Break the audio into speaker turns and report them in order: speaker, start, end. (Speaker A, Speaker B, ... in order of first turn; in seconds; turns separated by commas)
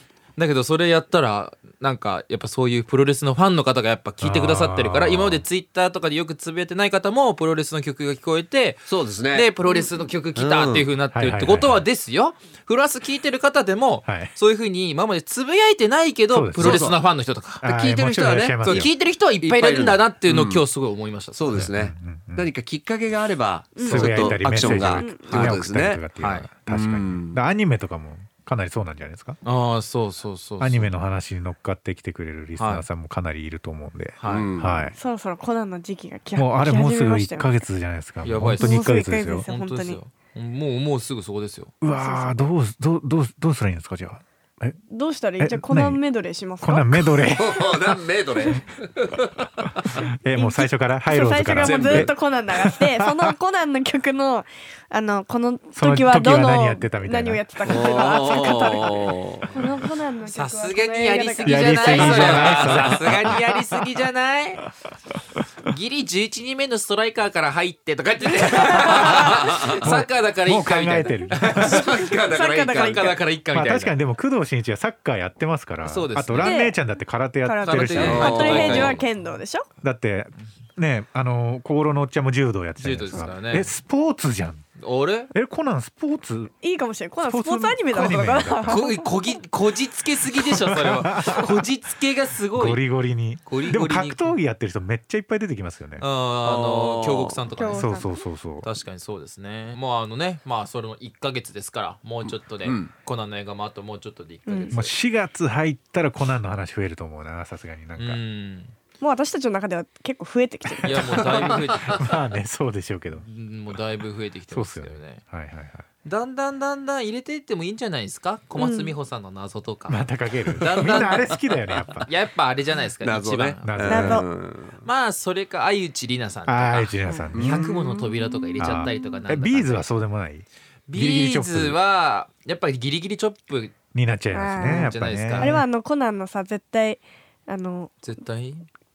Speaker A: 0.4-17.6, Speaker B: 4.2-5.4, Speaker C: 8.9-9.5, Speaker C: 10.3-10.9, Speaker B: 11.1-11.8, Speaker B: 14.1-14.3, Speaker B: 16.3-16.9, Speaker C: 16.6-17.0, Speaker B: 17.6-18.9, Speaker C: 17.6-20.6, Speaker A: 18.6-21.7, Speaker C: 21.4-26.0, Speaker B: 21.5-22.5, Speaker D: 23.8-25.5, Speaker B: 23.8-29.4, Speaker A: 26.2-26.5, Speaker C: 26.7-27.4, Speaker A: 29.4-30.9, Speaker B: 30.6-35.0, Speaker A: 32.6-32.9, Speaker A: 34.2-34.5, Speaker C: 34.2-34.9, Speaker D: 35.0-37.6, Speaker B: 36.4-39.5, Speaker A: 38.2-38.8, Speaker D: 38.6-40.0, Speaker A: 39.5-41.7, Speaker B: 41.8-44.8, Speaker D: 41.9-42.5, Speaker D: 44.9-47.3, Speaker B: 45.4-46.0, Speaker B: 46.6-48.0, Speaker C: 47.3-50.0, Speaker B: 49.8-53.3, Speaker D: 50.3-62.4, Speaker C: 51.6-52.1, Speaker B: 55.7-57.8, Speaker C: 57.6-59.5, Speaker A: 60.3-64.7, Speaker B: 61.4-63.6, Speaker C: 61.9-63.4, Speaker A: 65.7-72.2, Speaker D: 68.5-69.3, Speaker B: 69.0-69.3, Speaker C: 69.1-69.8, Speaker B: 69.8-71.8, Speaker C: 71.4-73.2, Speaker D: 72.0-73.2, Speaker A: 72.8-73.9, Speaker B: 73.5-78.9, Speaker A: 75.8-76.6, Speaker D: 76.4-76.8, Speaker D: 77.4-79.7, Speaker A: 77.6-79.0, Speaker C: 78.0-78.9, Speaker B: 79.8-84.7, Speaker A: 82.8-83.7, Speaker A: 84.8-85.3, Speaker B: 85.3-86.5, Speaker D: 86.6-89.0, Speaker B: 87.2-88.8, Speaker A: 88.7-92.8, Speaker B: 90.3-91.6, Speaker B: 92.5-96.0, Speaker A: 93.4-94.3, Speaker A: 96.0-104.9, Speaker C: 96.4-97.5, Speaker D: 97.5-98.2, Speaker B: 97.7-98.7, Speaker C: 102.6-102.9, Speaker D: 104.5-104.7, Speaker B: 104.7-108.2, Speaker A: 108.0-108.7, Speaker D: 109.0-111.4, Speaker A: 110.8-112.1, Speaker C: 111.2-112.0, Speaker B: 111.8-113.2, Speaker A: 113.2-115.2, Speaker B: 114.5-115.8, Speaker A: 116.0-120.0, Speaker D: 118.6-118.9, Speaker B: 119.9-122.1, Speaker A: 120.5-121.4, Speaker C: 120.6-121.3, Speaker A: 122.0-124.1, Speaker C: 123.0-124.8, Speaker B: 123.6-124.2, Speaker D: 123.9-124.2, Speaker A: 124.8-129.9, Speaker B: 126.5-127.7, Speaker C: 127.3-128.2, Speaker B: 128.6-131.8, Speaker A: 130.9-133.8, Speaker B: 133.9-135.7, Speaker D: 134.3-137.9, Speaker A: 134.6-135.5, Speaker A: 138.0-138.7